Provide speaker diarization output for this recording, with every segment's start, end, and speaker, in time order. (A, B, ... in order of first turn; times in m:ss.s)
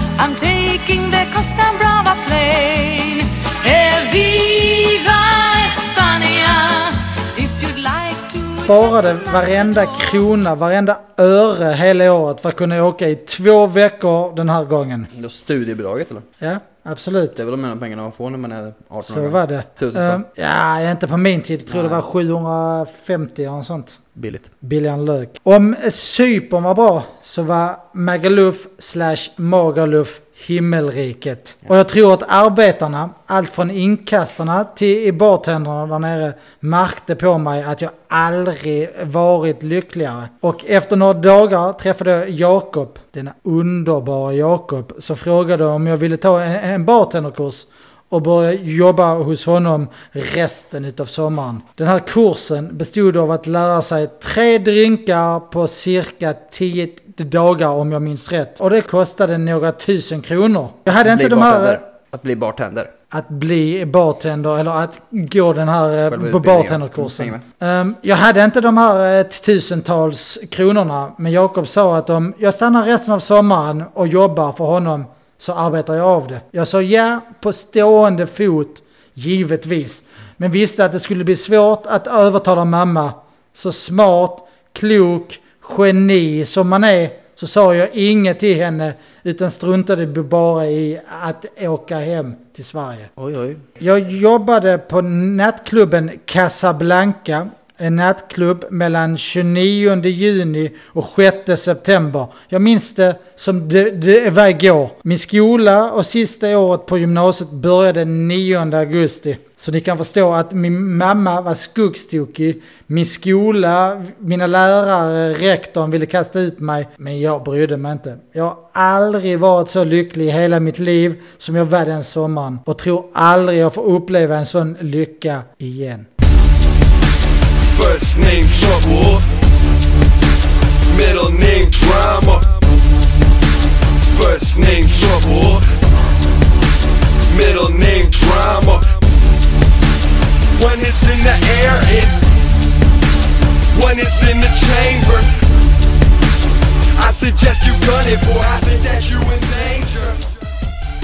0:00.2-0:10.2 A
0:08.7-0:15.1 B
0:15.1-0:16.3 C
0:16.4-0:17.4 B
0:17.4-0:20.2 C
0:19.0-0:24.0 B
0:21.7-0:22.0 C
0:24.2-0:24.5 C
0:24.6-1:01.8 B
1:01.0-1:02.9 C
1:03.1-1:33.1 B
1:06.1-1:07.4 C
1:33.2-1:33.6 C
1:33.8-2:06.1 B
2:07.7-2:09.2 D
2:10.9-2:12.5 D
2:14.1-2:15.6 D
2:17.3-2:19.0 D
2:20.5-2:22.2 D
2:23.7-2:25.4 D
2:27.0-2:30.3 D